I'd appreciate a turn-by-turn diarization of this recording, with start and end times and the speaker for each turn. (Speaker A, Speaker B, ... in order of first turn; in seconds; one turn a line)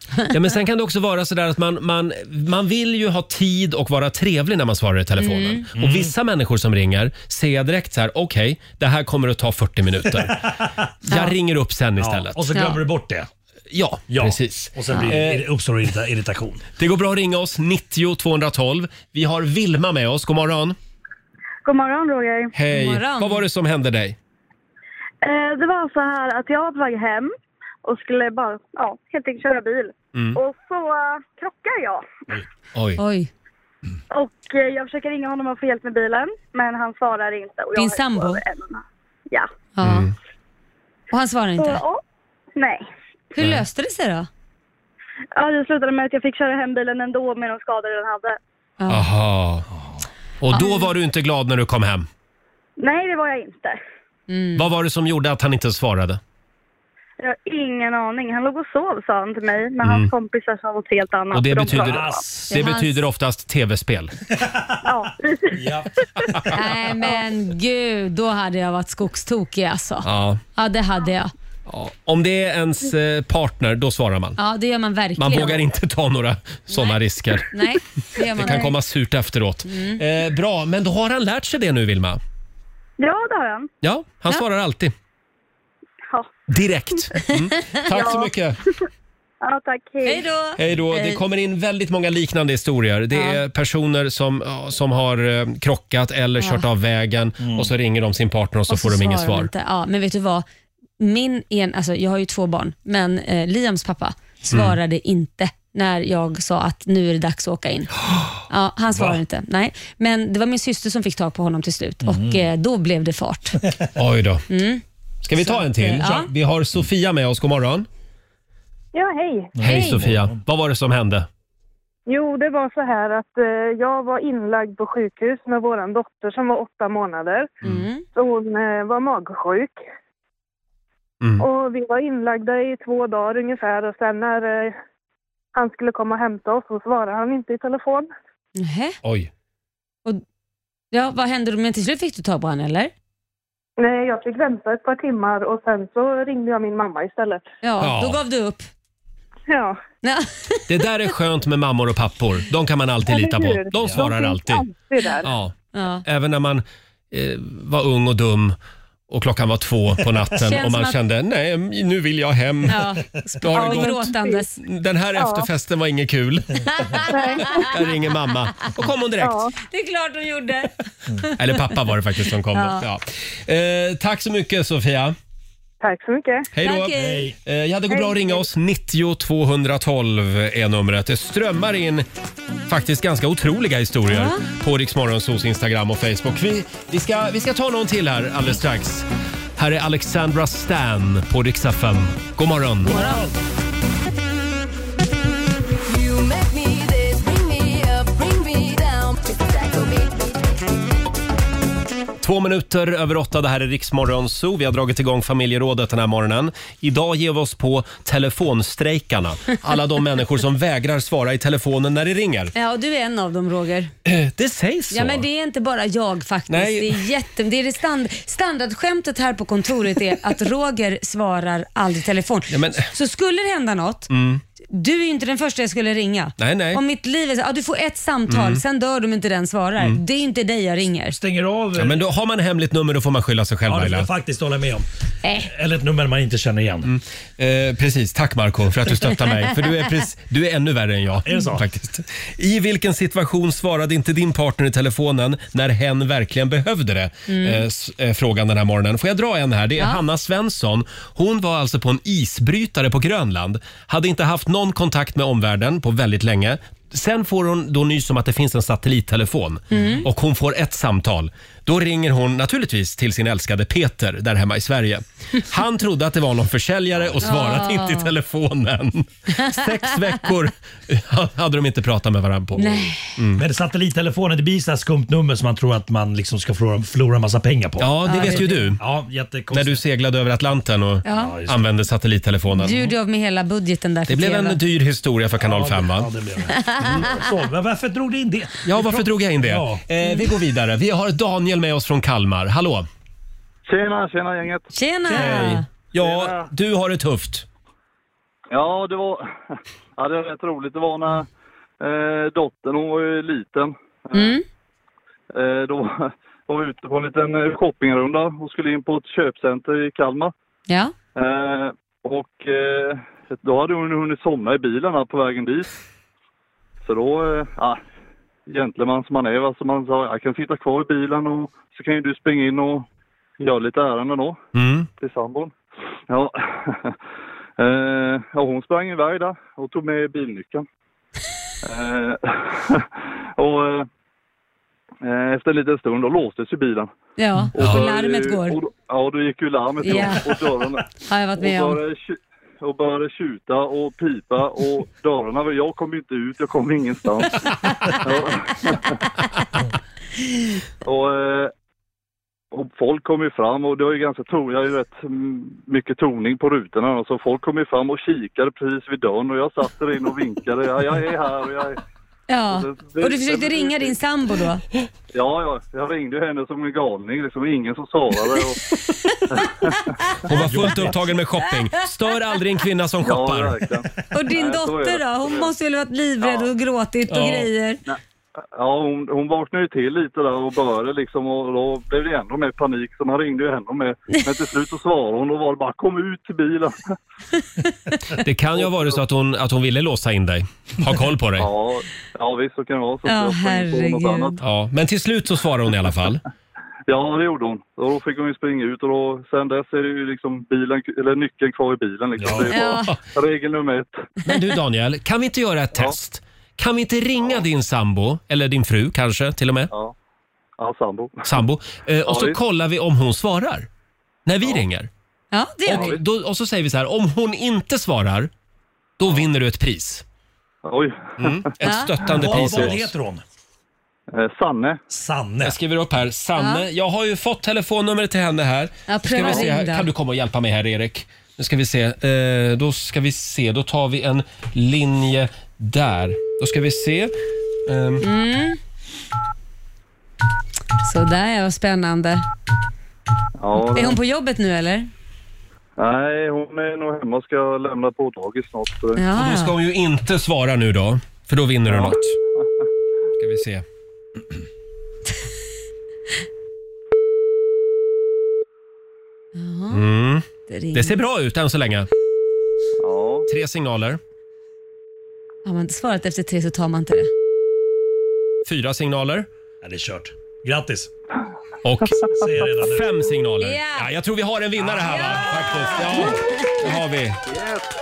Speaker A: 0.3-10.4
Speaker B: 5.2-5.7
Speaker C: 5.7-6.1
Speaker C: 10.1-10.9
Speaker A: 11.0-12.4
Speaker C: 12.0-13.3
Speaker B: 12.5-12.8
Speaker A: 13.7-15.4
Speaker C: 14.1-16.6
Speaker A: 16.8-20.8
Speaker D: 21.6-22.5
Speaker A: 22.5-24.1
Speaker B: 22.7-23.4
Speaker D: 25.2-27.3
Speaker D: 27.8-32.1
Speaker A: 32.7-33.0
Speaker B: 33.0-33.3
Speaker D: 34.1-39.5
Speaker B: 37.8-38.4
Speaker B: 39.8-40.1
Speaker A: 39.8-40.1
Speaker B: 41.1-41.8
Speaker D: 41.6-42.0
Speaker D: 42.5-42.8
Speaker B: 43.3-44.3
Speaker A: 43.4-43.6
Speaker D: 45.4-48.4
Speaker B: 48.8-49.1
Speaker A: 48.9-49.6
Speaker A: 50.4-52.1
Speaker B: 50.5-50.9
Speaker D: 52.8-53.8
Speaker B: 54.3-54.7
Speaker A: 54.5-56.2
Speaker D: 57.2-62.2
Speaker A: 59.8-60.1
Speaker A: 61.3-64.2
Speaker C: 61.6-62.6
Speaker B: 62.5-63.0
Speaker C: 64.4-64.8
Speaker D: 64.8-65.5
Speaker C: 65.5-66.4
Speaker B: 66.5-71.3
Speaker A: 70.0-70.4
Speaker A: 71.7-74.4
Speaker B: 74.4-75.6
Speaker A: 75.2-77.5
Speaker B: 77.5-78.7
Speaker A: 78.3-82.2
Speaker B: 79.7-80.0
Speaker D: 83.0-83.7
Speaker A: 83.8-84.9
Speaker A: 86.5-88.6
Speaker D: 87.9-88.3
Speaker D: 89.4-90.2
Speaker B: 90.0-91.2
Speaker A: 90.6-99.5
Speaker B: 93.1-93.4
Speaker B: 96.4-96.6
Speaker C: 97.4-97.7
Speaker B: 98.7-100.4
Speaker B: 101.0-107.9
Speaker A: 104.5-104.8
Speaker B: 108.5-113.6
Speaker C: 108.9-109.2
Speaker C: 112.0-112.5
Speaker A: 114.0-114.4
Speaker B: 114.5-114.8
Speaker A: 115.2-117.9
Speaker B: 115.3-116.3
Speaker E: 118.9-119.5
Speaker C: 119.5-120.4
Speaker A: 119.6-121.3
Speaker B: 119.6-120.0
Speaker E: 122.1-127.5
Speaker B: 127.6-128.0
Speaker E: 128.1-129.8
Speaker A: 131.2-131.5
Speaker E: 131.4-134.7
Speaker E: 135.5-138.1
Speaker B: 138.6-139.0
Speaker A: 139.0-139.3
Speaker B: 140.9-142.9
Speaker E: 143.8-147.4
Speaker B: 147.6-148.7
Speaker A: 147.8-148.2
Speaker E: 149.5-149.8
Speaker B: 150.0-150.7
Speaker A: 150.7-154.7
Speaker E: 153.1-155.3
Speaker A: 155.2-155.5
Speaker B: 155.7-156.0
Speaker A: 156.0-158.6
Speaker A: 159.1-162.8
Speaker B: 160.4-161.0
Speaker B: 162.7-164.5
Speaker A: 163.4-169.5
Speaker E: 163.6-164.4
Speaker E: 165.2-165.5
Speaker B: 166.7-167.7
Speaker E: 167.1-167.7
Speaker E: 169.2-169.5
Speaker B: 169.6-171.3
Speaker A: 171.3-175.2
Speaker B: 172.5-172.8
Speaker E: 175.8-176.5
Speaker A: 176.5-182.1
Speaker B: 176.6-177.3
Speaker C: 176.9-177.3
Speaker E: 177.9-178.4
Speaker A: 182.7-193.1
Speaker B: 184.1-184.4
Speaker B: 192.8-193.3
Speaker C: 192.9-193.3
Speaker F: 195.9-199.2
Speaker A: 202.2-212.5
Speaker B: 212.5-213.9
Speaker A: 214.0-215.2
Speaker B: 214.9-224.1
Speaker A: 216.5-217.0
Speaker A: 222.5-222.9
Speaker A: 224.1-224.4
Speaker B: 224.7-231.2
Speaker A: 226.4-226.8
Speaker A: 228.3-228.6
Speaker C: 231.1-232.0
Speaker A: 231.8-234.1
Speaker C: 233.7-234.8
Speaker B: 235.2-235.5
Speaker C: 235.4-236.9
Speaker A: 236.8-273.4
Speaker C: 241.2-241.6
Speaker B: 247.3-247.6
Speaker B: 259.7-260.1
Speaker B: 267.2-268.1
Speaker B: 272.6-273.1
Speaker C: 273.4-279.8
Speaker A: 277.8-278.8
Speaker B: 278.0-278.7
Speaker A: 279.5-282.9
Speaker B: 281.0-281.4
Speaker C: 281.1-281.6
Speaker B: 282.5-284.6
Speaker A: 284.1-286.1
Speaker C: 285.4-289.8
Speaker A: 288.6-292.9
Speaker G: 293.6-294.7
Speaker B: 294.7-295.6
Speaker C: 295.1-295.6
Speaker A: 295.1-297.4
Speaker G: 296.0-296.4
Speaker G: 298.5-299.2
Speaker G: 300.0-301.2
Speaker G: 301.8-304.4
Speaker B: 304.1-304.4
Speaker G: 305.3-310.3
Speaker G: 311.1-315.7
Speaker G: 316.8-317.8
Speaker G: 318.5-322.8
Speaker G: 323.4-324.4
Speaker A: 324.5-324.9
Speaker G: 325.0-325.5
Speaker G: 326.1-326.9
Speaker G: 327.6-330.6
Speaker G: 331.6-333.9
Speaker G: 335.0-336.9
Speaker B: 337.2-338.6
Speaker G: 337.6-340.8
Speaker B: 339.8-340.2
Speaker B: 341.0-341.8
Speaker G: 341.4-347.5
Speaker G: 348.0-349.0
Speaker G: 350.8-351.5
Speaker G: 352.5-361.8
Speaker B: 362.3-364.6
Speaker G: 362.5-363.9
Speaker G: 365.1-368.6
Speaker G: 369.3-369.9
Speaker A: 370.2-373.5
Speaker C: 370.3-370.9
Speaker G: 373.0-375.5
Speaker B: 374.1-377.8
Speaker G: 376.2-376.5
Speaker G: 378.5-386.9
Speaker A: 388.2-391.5
Speaker G: 388.6-389.0
Speaker G: 391.4-394.4
Speaker B: 393.1-394.4
Speaker A: 394.4-396.2
Speaker G: 396.9-404.0
Speaker C: 402.2-402.6
Speaker B: 402.4-402.9
Speaker A: 404.2-409.7
Speaker G: 410.6-411.3
Speaker A: 411.2-413.7
Speaker G: 412.1-412.4
Speaker A: 414.2-414.9
Speaker B: 415.3-416.0
Speaker A: 415.6-418.3
Speaker A: 419.0-420.0
Speaker G: 420.6-421.4
Speaker A: 421.2-422.9
Speaker B: 421.6-421.9
Speaker C: 422.0-423.2
Speaker G: 424.1-424.8
Speaker C: 424.9-425.6
Speaker A: 425.4-437.1
Speaker B: 426.4-426.6
Speaker B: 428.9-429.9
Speaker A: 437.6-438.0
Speaker B: 438.0-438.6
Speaker B: 440.8-442.2
Speaker G: 443.4-444.0
Speaker B: 443.7-444.9
Speaker G: 445.8-449.0
Speaker B: 449.0-449.6
Speaker A: 449.1-452.1
Speaker G: 451.7-452.4
Speaker A: 453.2-453.6
Speaker B: 459.4-459.8
Speaker A: 459.7-461.9
Speaker B: 460.5-460.9
Speaker G: 462.8-463.3
Speaker A: 463.3-464.0
Speaker B: 465.4-467.1
Speaker A: 468.4-469.3
Speaker C: 469.6-470.9
Speaker A: 471.6-477.2
Speaker C: 472.1-472.9
Speaker B: 473.4-473.9
Speaker C: 474.6-476.2
Speaker B: 474.9-476.1
Speaker G: 477.3-477.6